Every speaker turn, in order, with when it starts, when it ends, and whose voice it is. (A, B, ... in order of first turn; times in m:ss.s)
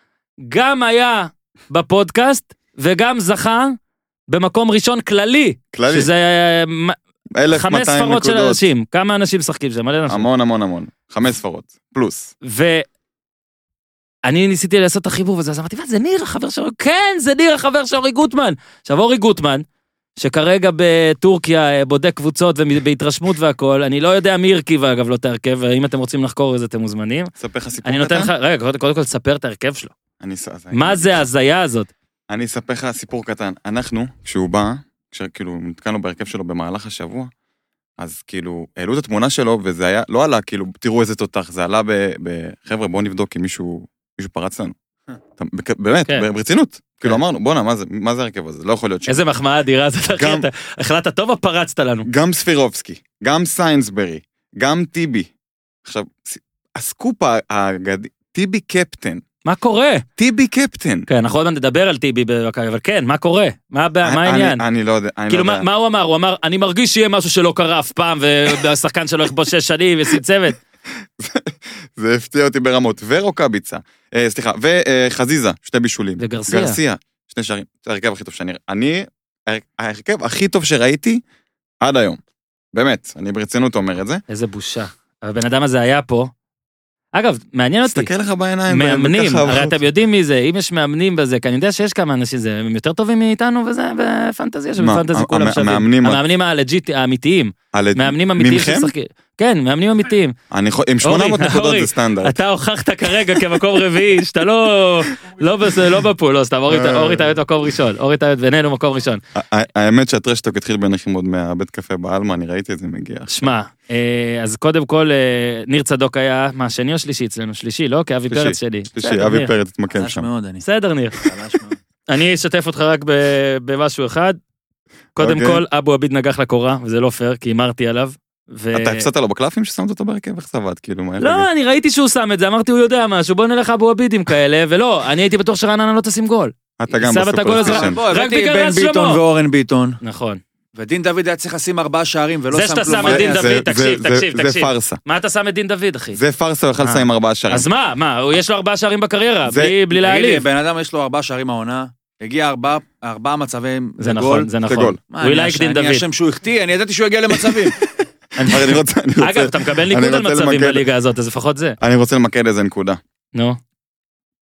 0:00.4-0:03.8 A
0:04.3-0:07.0 A
0:05.7-0:06.1 B
0:07.3-0:08.6 B
0:07.5-0:10.3 A
0:10.1-0:12.3 B
0:12.4-0:12.9 A
0:14.2-0:19.6 A
0:20.2-0:27.3 A
0:27.4-0:28.3 B
0:27.8-0:29.9 A
0:30.2-0:31.2 B
0:30.7-0:31.9 A
0:32.3-0:37.3 B
0:38.0-0:44.7 B
0:45.3-0:49.2 B
0:49.1-0:52.1 A
0:50.2-0:50.5 B
0:52.1-0:55.3 B
0:55.8-0:59.2 B
0:59.4-1:00.0 A
1:00.2-1:01.1 B
1:01.1-1:04.6 A
1:04.0-1:05.6 B
1:05.3-1:10.6 A
1:11.2-1:21.2 B
1:16.2-1:16.8 A
1:21.8-1:22.2 B
1:22.7-1:24.2 B
1:24.3-1:26.3 A
1:27.1-1:28.1 A
1:27.8-1:29.8 B
1:28.7-1:40.3 A
1:34.8-1:36.2 B
1:37.7-1:38.9 B
1:40.5-1:42.4 B
1:41.0-1:49.2 A
1:46.7-1:47.3 B
1:49.4-1:53.5 B
1:53.3-1:59.5 A
1:58.3-2:00.3 B
1:59.9-2:00.6 C
2:00.6-2:01.2 A
2:01.2-2:01.8 C
2:02.1-2:04.4 A
2:05.2-2:09.1 A
2:05.2-2:05.6 B
2:08.7-2:11.5 B
2:11.2-2:19.2 A
2:16.8-2:18.0 B
2:17.5-2:20.0 C
2:20.0-2:20.4 A
2:20.7-2:23.5 C
2:22.5-2:26.2 A
2:22.9-2:25.0 B
2:26.1-2:27.7 B
2:26.8-2:30.4 A
2:29.4-2:29.8 B
2:29.9-2:34.5 C
2:34.0-2:36.0 A
2:34.7-2:35.0 B
2:35.1-2:37.7 C
2:38.4-2:41.8 A
2:38.4-2:40.8 B
2:41.8-2:43.0 B